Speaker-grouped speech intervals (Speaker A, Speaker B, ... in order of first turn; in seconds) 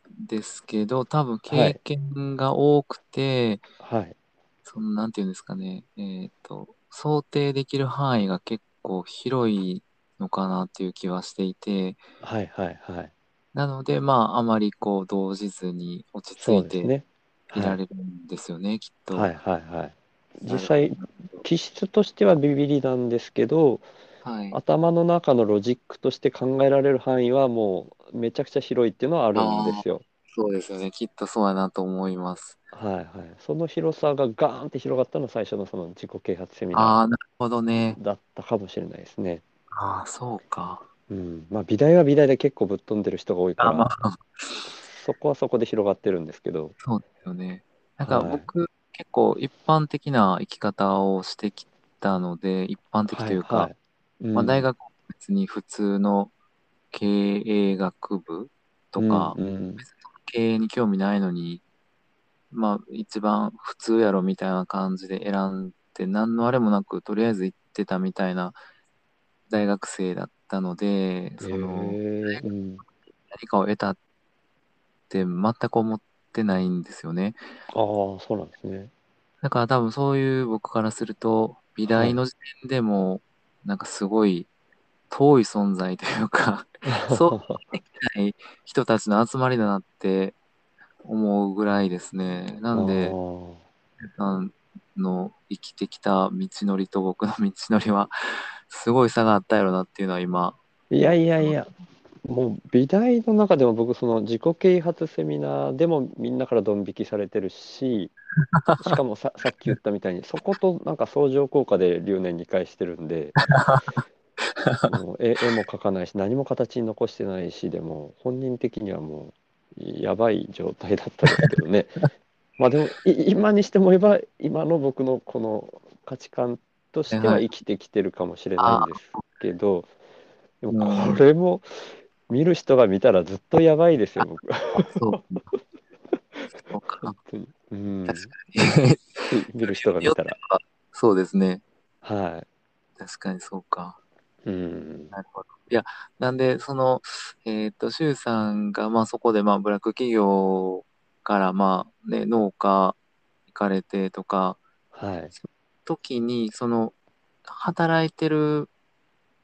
Speaker A: 0.2-3.7, 4.7-12.0, 13.5-16.9, 17.5-19.3, 20.5-21.4, 24.2-24.6, 29.4-32.6, 36.7-38.0, 39.7-40.8, 43.6-44.7, 46.8-53.7, 54.3-56.3, 56.9-61.6, 62.5-68.6, 69.5-72.5, 73.3-74.0, 75.1-77.4, 79.4-84.5, 85.1-90.4, 91.0-93.2, 94.0-98.1, 98.7-100.6, 108.6-109.0, 113.4-114.0, 114.6-114.9, 127.1-127.5, 128.6-129.2, 130.7-131.2, 134.2-135.5, 136.5-137.2, 138.1-141.6, 143.0-144.0, 145.1-153.0, 153.5-154.6, 155.3-156.9, 157.5-158.7
Speaker B: 1.5-1.8, 3.8-4.2, 12.2-13.1, 16.4-17.8, 19.1-23.9, 24.5-30.0, 32.7-37.0, 37.9-39.4, 41.1-43.9, 44.9-46.8, 48.0-48.5, 53.1-54.7, 59.0-59.9, 71.4-72.8, 77.7-78.9, 81.9-82.2, 86.8-87.6, 92.7-93.6, 100.9-101.7, 102.2-108.1, 108.8-113.4, 114.9-122.0, 122.6-129.9, 130.6-135.0, 137.0-138.3, 139.3-140.4, 142.0-142.5, 144.4-145.1, 154.9-155.3